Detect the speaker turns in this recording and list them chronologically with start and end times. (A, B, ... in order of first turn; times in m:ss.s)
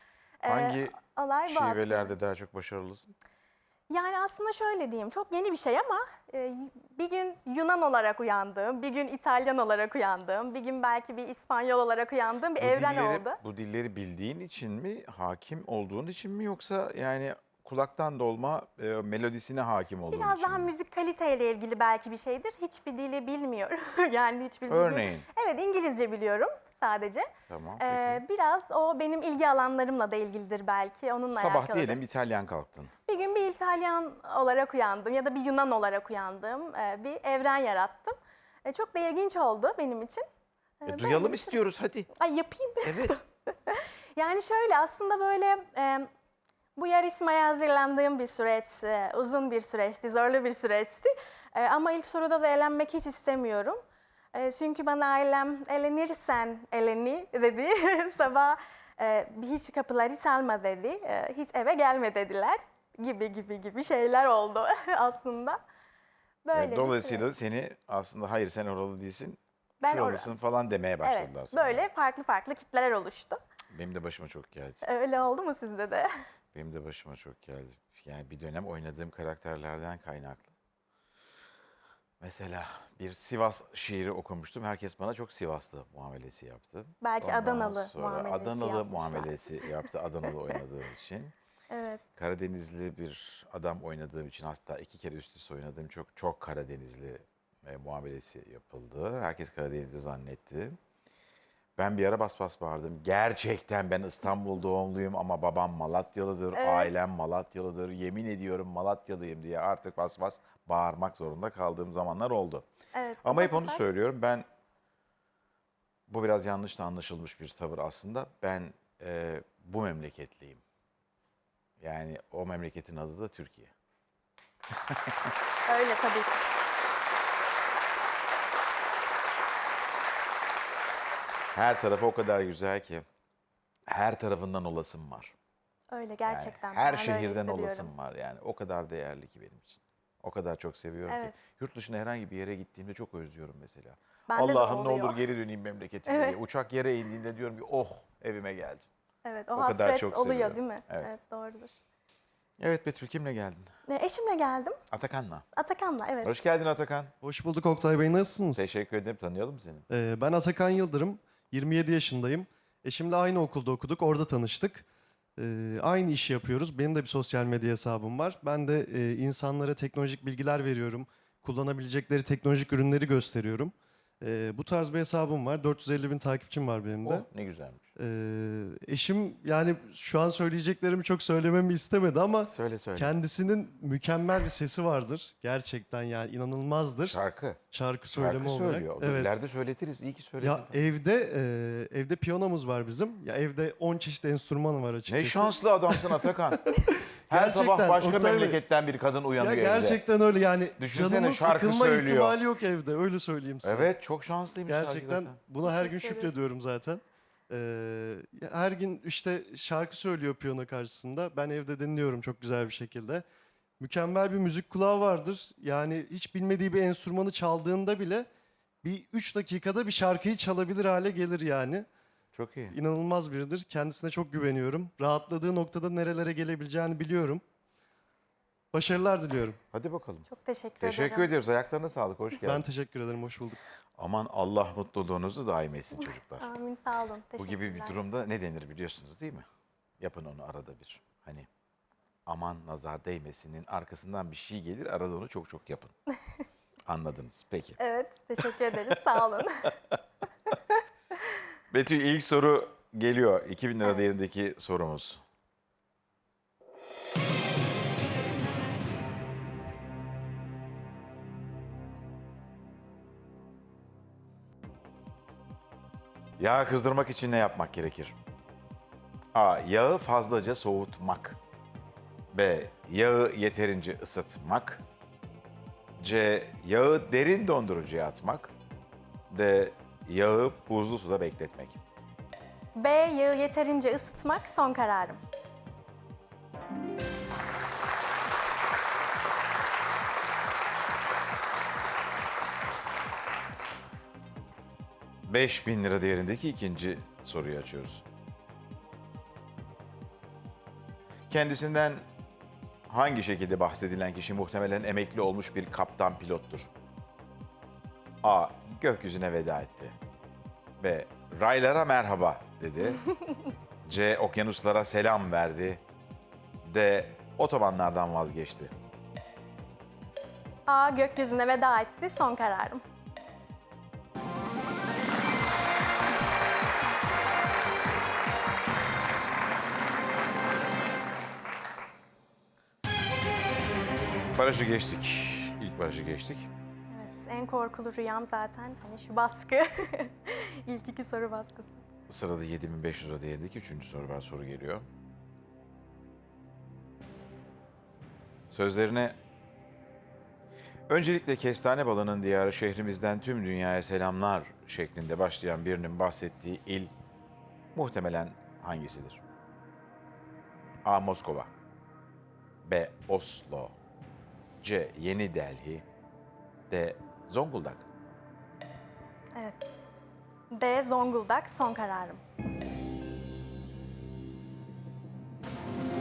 0:00.4-0:02.1 A
0:00.5-0:03.1 B
0:03.9-0:13.4 A
0:12.6-0:20.7 B
0:20.1-0:27.3 A
0:24.7-0:25.3 B
0:27.5-0:28.2 B
0:27.8-0:32.0 A
0:31.3-0:32.9 B
0:33.0-0:40.2 A
0:40.8-0:41.5 A
0:40.8-0:42.1 B
0:42.1-0:46.1 A
0:42.8-0:43.2 B
0:46.8-0:53.8 A
0:54.3-1:05.6 A
1:06.4-1:07.2 A
1:06.5-1:11.8 B
1:09.8-1:10.3 A
1:11.0-1:13.4 A
1:13.7-1:14.8 B
1:14.8-1:16.1 A
1:16.5-1:20.5 B
1:22.2-1:31.3 B
1:27.0-1:29.9 A
1:31.7-1:32.0 A
1:32.2-1:40.8 B
1:41.8-1:52.7 B
1:46.5-1:46.9 A
1:52.9-1:53.8 A
1:53.2-1:54.4 B
1:56.1-2:00.6 B
2:01.8-2:03.7 B
2:04.9-2:05.3 B
2:05.6-2:06.4 A
2:11.5-2:13.0 B
2:13.9-2:15.3 B
2:15.9-2:17.9 A
2:16.3-2:28.9 B
2:21.1-2:21.3 A
2:24.3-2:25.2 A
2:26.1-2:26.4 A
2:29.2-2:31.8 A
2:29.5-2:31.1 B
2:32.6-2:33.7 B
2:33.9-2:34.8 A
2:34.9-2:35.4 B
2:35.5-2:36.3 A
2:36.2-2:37.1 B
2:37.2-2:38.7 C
2:38.6-2:39.8 B
2:39.9-2:44.8 C
2:45.4-2:57.2 C
2:57.0-2:57.9 B
2:58.0-3:07.2 C
3:02.4-3:03.2 B
3:07.1-3:07.6 B
3:07.7-3:09.4 C
3:08.1-3:10.7 B
3:10.4-3:16.1 C
3:15.1-3:16.6 B
3:16.6-3:18.6 C
3:17.3-3:20.0 B
3:19.4-3:23.9 C
3:20.8-3:22.4 B
3:23.6-3:25.4 B
3:24.7-3:33.2 C
3:25.6-3:26.3 A
3:33.8-3:38.3 C
3:38.8-3:41.8 C
3:42.3-3:42.8 B
3:42.7-3:47.4 C
3:48.7-3:49.6 C
3:49.7-3:50.3 B
3:50.3-3:51.3 A
3:50.8-3:52.6 B
3:52.4-3:53.6 C
3:54.0-3:56.5 B
3:56.4-3:58.0 A
3:57.4-3:59.4 B
4:00.0-4:01.5 B
4:02.2-4:05.9 B
4:06.9-4:07.8 B
4:07.8-4:09.7 A
4:08.5-4:09.0 B
4:10.5-4:10.8 A
4:11.7-4:15.2 B
4:26.4-4:28.1 B
4:29.3-4:31.4 B
4:32.3-4:34.8 B
4:36.0-4:38.5 B
4:39.3-4:41.8 B
4:42.7-4:45.2 A
4:55.3-4:58.0 B
5:01.3-5:02.0 B
5:02.9-5:06.7 B
5:08.2-5:10.0 B
5:10.8-5:13.0 B
5:13.8-5:15.8 B
5:16.6-5:18.7 B
5:20.7-5:22.8 A
5:34.3-5:36.5 B
5:36.9-5:41.8 A
5:42.1-5:44.9 B
5:48.5-5:49.2 B
5:50.9-5:56.9 B
5:57.7-5:59.2 B
6:00.8-6:01.5 B
6:02.6-6:03.7 B
6:04.6-6:05.8 B
6:06.7-6:07.8 B
6:09.4-6:09.7 A
6:10.5-6:12.2 A